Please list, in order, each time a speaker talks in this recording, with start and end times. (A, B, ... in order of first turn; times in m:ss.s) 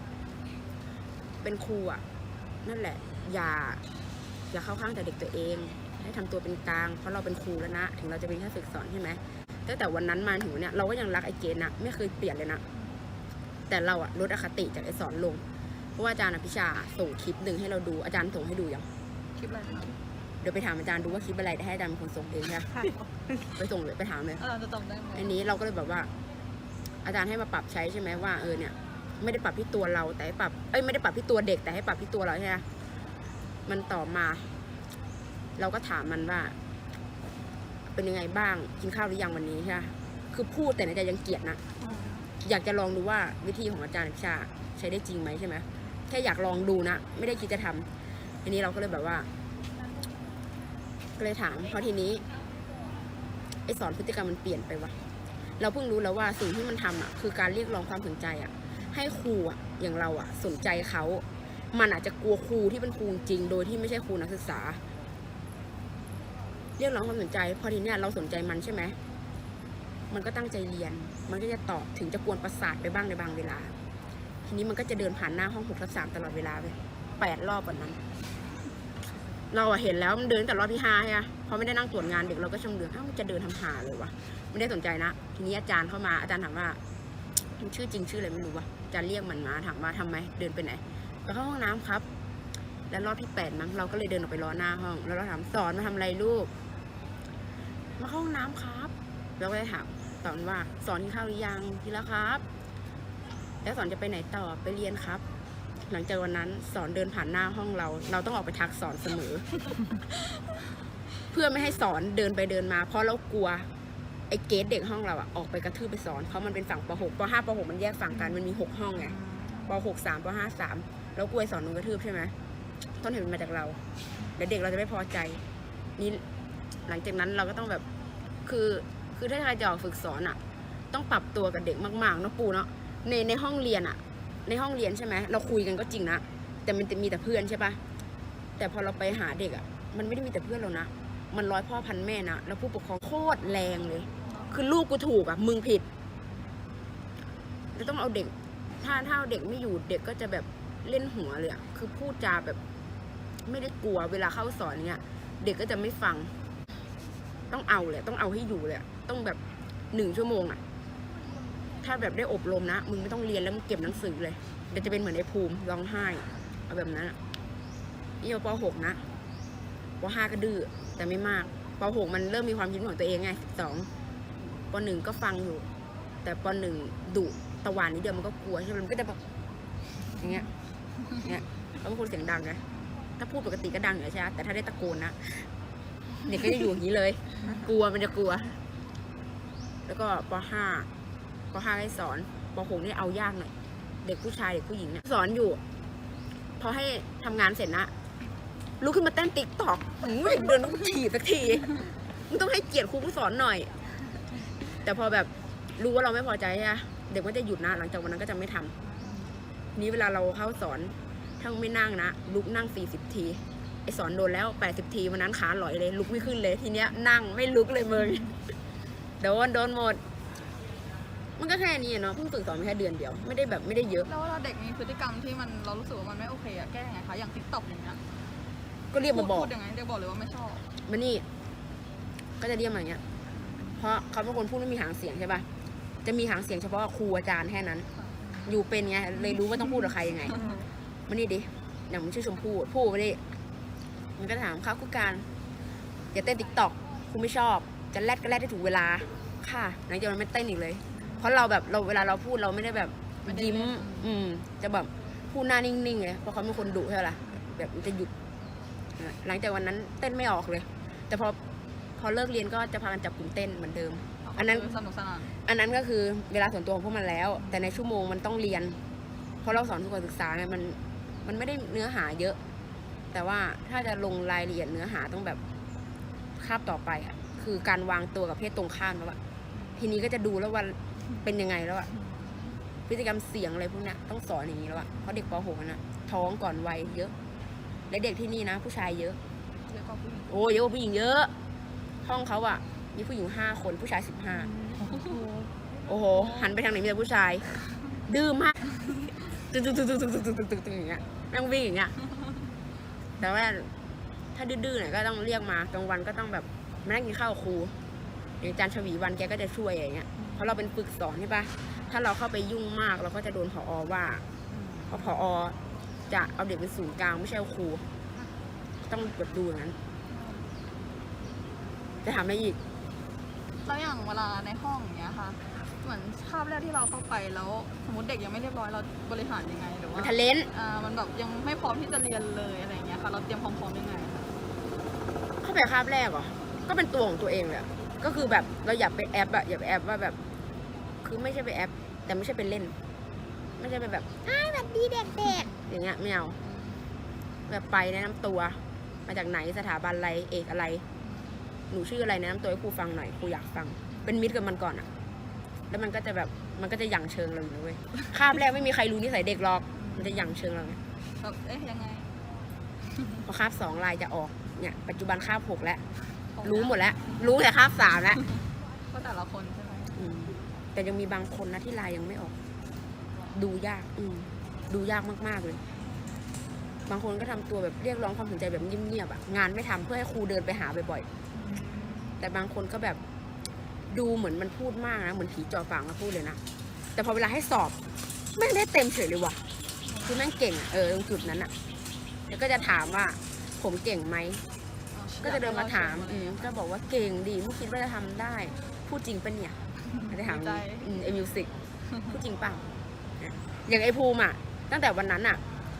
0:01.4-0:02.0 A
0:02.6-0:03.8 A
0:04.5-0:12.6 A
0:13.7-0:15.4 A
0:16.0-0:18.9 A
0:19.4-0:19.9 B
0:20.4-0:22.7 A
0:23.5-0:24.4 A
0:24.4-0:25.3 B
0:25.1-0:26.1 A
0:27.0-0:32.6 A
0:33.6-0:34.5 A
0:35.6-0:36.5 A
0:37.9-0:41.6 A
0:41.8-0:42.3 B
0:42.4-0:47.9 A
0:48.4-0:49.3 A
0:51.2-0:52.2 A
0:53.7-0:54.9 A
0:55.6-1:04.8 A
1:06.8-1:09.0 A
1:10.1-1:13.7 A
1:14.4-1:18.0 A
1:19.5-1:26.8 A
1:27.6-1:32.0 A
1:32.9-1:36.5 A
1:38.0-1:42.4 A
1:43.6-1:45.2 A
1:45.9-1:49.4 A
1:51.3-1:53.7 A
1:54.3-1:59.2 A
1:59.0-1:59.8 B
1:59.7-2:02.3 A
2:03.0-2:03.8 A
2:04.4-2:05.4 A
2:06.0-2:06.2 A
2:06.9-2:07.8 A
2:08.4-2:10.4 A
2:10.9-2:17.8 A
2:18.6-2:25.8 A
2:24.3-2:24.5 B
2:27.7-2:32.6 A
2:33.4-2:36.3 A
2:37.5-2:39.4 A
2:39.9-2:40.6 A
2:41.8-2:47.2 A
2:48.2-2:49.0 A
2:50.0-2:53.9 A
2:54.7-2:55.7 A
2:56.2-2:59.2 A
3:00.2-3:00.5 A
3:01.2-3:02.6 A
3:03.2-3:05.5 A
3:06.2-3:08.6 A
3:09.8-3:10.9 A
3:11.5-3:13.5 A
3:14.0-3:15.6 A
3:16.6-3:17.9 A
3:18.8-3:21.8 A
3:22.3-3:23.7 A
3:24.8-3:28.7 A
3:28.9-3:29.4 B
3:29.8-3:38.3 A
3:39.2-3:40.0 A
3:41.4-3:44.1 A
3:44.0-3:48.0 B
3:48.9-3:49.5 A
3:49.1-3:50.6 B
3:50.8-3:51.2 A
3:52.4-3:53.0 A
3:53.4-3:53.8 B
3:53.8-3:55.4 A
3:56.0-3:57.8 A
3:58.0-3:58.4 B
3:58.4-4:00.4 A
4:00.2-4:00.6 B
4:01.1-4:03.2 A
4:04.2-4:05.3 A
4:06.1-4:18.1 A
4:10.9-4:11.3 B
4:13.2-4:14.1 B
4:19.0-4:21.4 A
4:22.0-4:24.8 A
4:24.2-4:25.4 B
4:25.4-4:28.8 A
4:27.4-4:27.7 B
4:29.4-4:32.4 A
4:33.1-4:35.4 A
4:36.4-4:39.2 A
4:39.6-4:39.8 B
4:39.8-4:41.9 A
4:42.9-4:47.1 A
4:47.9-4:49.2 A
4:49.7-4:50.3 B
4:50.3-4:51.3 A
4:52.0-4:54.5 A
4:54.8-4:55.2 B
4:55.9-4:58.6 A
4:59.4-5:01.9 A
5:03.2-5:03.7 A
5:04.3-5:07.8 A
5:08.4-5:14.2 A
5:10.2-5:10.5 B
5:14.5-5:15.2 B
5:14.9-5:15.6 A
5:16.1-5:17.8 A
5:18.9-5:19.8 A
5:20.1-5:20.5 B
5:22.0-5:22.6 A
5:23.6-5:34.4 B
5:29.9-5:30.5 A
5:35.4-5:40.2 A
5:41.0-5:42.7 A
5:43.6-5:46.4 A
5:46.4-5:46.8 B
5:47.5-5:50.8 A
5:51.0-5:51.4 B
5:51.7-5:54.9 A
5:55.7-6:00.8 A
5:59.7-6:00.1 B
6:01.2-6:02.1 B
6:03.2-6:05.8 A
6:06.3-6:07.3 B
6:06.4-6:08.2 A
6:08.9-6:10.0 B
6:09.9-6:12.3 A
6:13.3-6:15.6 A
6:16.9-6:21.1 A
6:21.3-6:22.2 B
6:22.2-6:23.0 A
6:23.9-6:26.4 A
6:27.0-6:27.8 A
6:28.3-6:29.4 A
6:29.8-6:30.2 B
6:30.0-6:31.5 A
6:32.3-6:34.4 A
6:34.9-6:36.5 B
6:35.2-6:39.6 A
6:40.1-6:40.9 B
6:40.1-6:41.5 A
6:42.1-6:42.6 A
6:43.2-6:45.4 A